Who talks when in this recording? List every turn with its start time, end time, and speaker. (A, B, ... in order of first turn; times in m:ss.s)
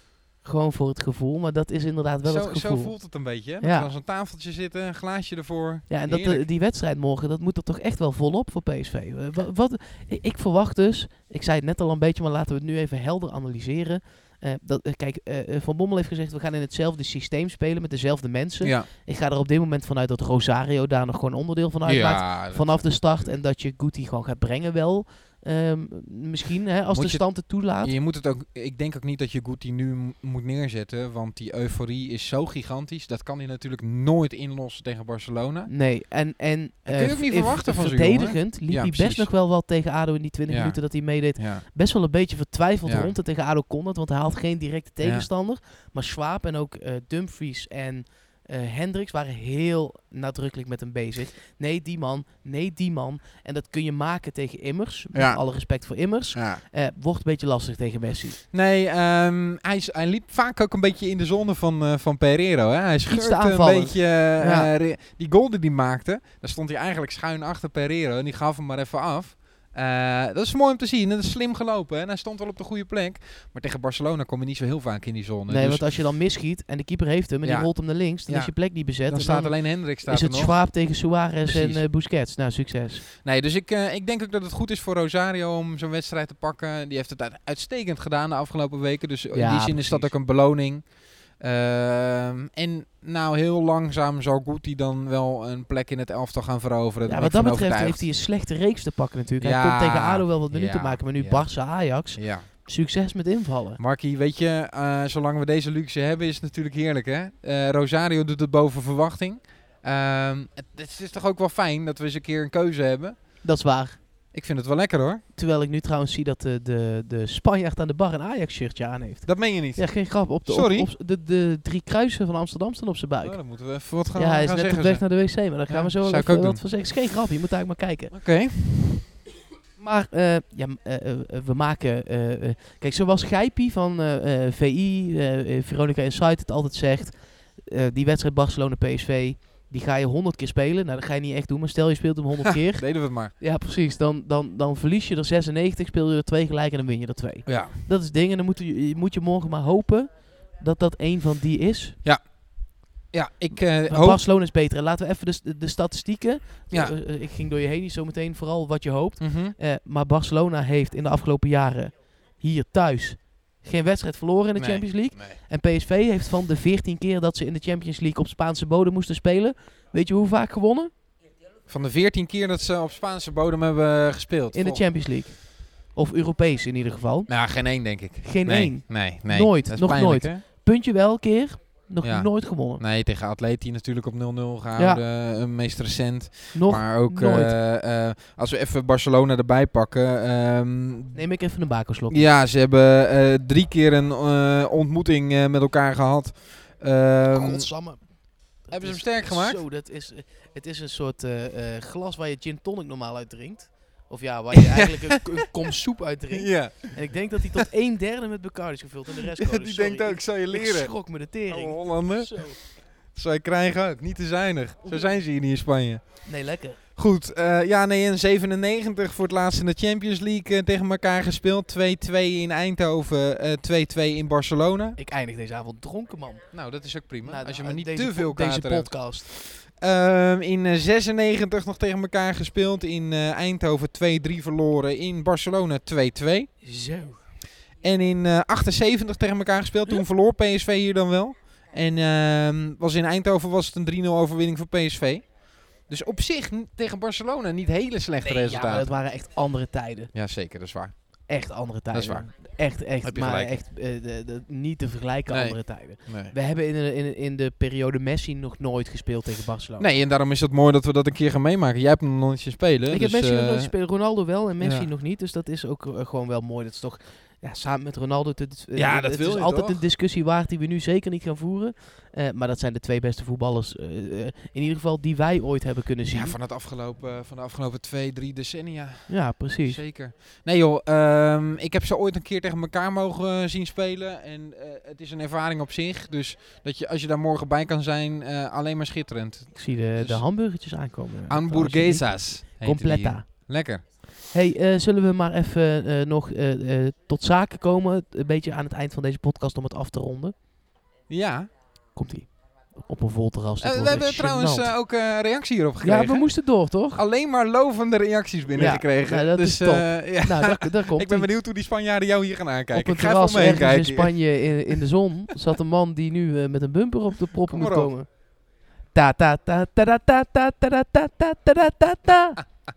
0:00.4-0:03.9 A
0:02.2-0:06.5 B
0:05.9-0:27.9 A
0:18.6-0:18.9 B
0:21.8-0:23.2 B
0:26.9-0:35.7 B
0:35.7-0:58.4 A
0:36.9-0:39.3 B
0:40.5-0:41.7 B
0:42.9-0:43.1 B
0:45.0-0:45.3 B
0:55.1-0:55.7 B
0:56.3-0:56.6 B
0:58.5-1:15.9 B
1:03.1-1:04.7 A
1:15.5-1:23.0 A
1:17.4-1:18.5 B
1:19.1-1:20.6 B
1:21.4-1:21.8 B
1:23.2-1:38.1 B
1:29.3-1:30.1 A
1:37.0-1:43.8 A
1:39.4-1:42.5 B
1:43.8-1:53.2 B
1:53.4-1:54.0 A
1:54.3-1:55.2 B
1:55.3-2:03.6 A
1:59.2-2:00.9 B
2:03.2-2:06.6 B
2:04.1-2:08.1 A
2:08.1-2:09.1 B
2:09.8-2:32.0 A
2:22.8-2:23.3 B
2:27.5-2:27.8 B
2:32.0-2:34.2 B
2:33.7-2:50.9 A
2:36.7-2:37.0 B
2:39.2-2:39.6 B
2:44.6-2:45.4 B
2:51.7-2:54.8 B
2:54.5-2:57.3 A
2:57.3-3:00.4 B
2:58.2-3:02.8 A
3:02.0-3:11.2 B
3:04.8-3:05.0 A
3:06.5-3:07.5 A
3:11.1-3:12.3 A
3:12.1-3:17.7 B
3:17.3-3:32.6 A
3:18.7-3:19.6 B
3:24.8-3:25.1 B
3:26.3-3:26.9 B
3:29.3-3:36.3 B
3:34.8-3:35.1 A
3:36.2-3:36.8 A
3:37.0-3:45.0 B
3:45.0-3:46.4 A
3:46.5-3:56.5 B
3:47.2-3:49.3 A
3:56.6-3:57.2 A
3:57.8-4:08.9 B
4:08.2-4:10.1 A
4:10.1-4:10.9 B
4:11.3-4:19.9 A
4:11.9-4:12.3 B
4:13.0-4:13.5 B
4:15.3-4:16.3 B
4:19.8-4:23.7 B
4:22.9-4:36.4 A
4:24.6-4:24.9 B
4:28.8-4:29.8 B
4:36.1-4:50.2 B
4:39.1-4:39.8 A
4:49.6-4:53.3 A
4:51.3-4:53.8 B
4:54.3-5:00.4 A
5:01.1-5:01.5 B
5:02.0-5:04.7 A
5:03.6-5:14.7 B
5:05.8-5:07.0 A
5:08.5-5:11.3 A
5:12.7-5:18.1 A
5:17.5-5:17.9 B
5:18.9-5:22.5 A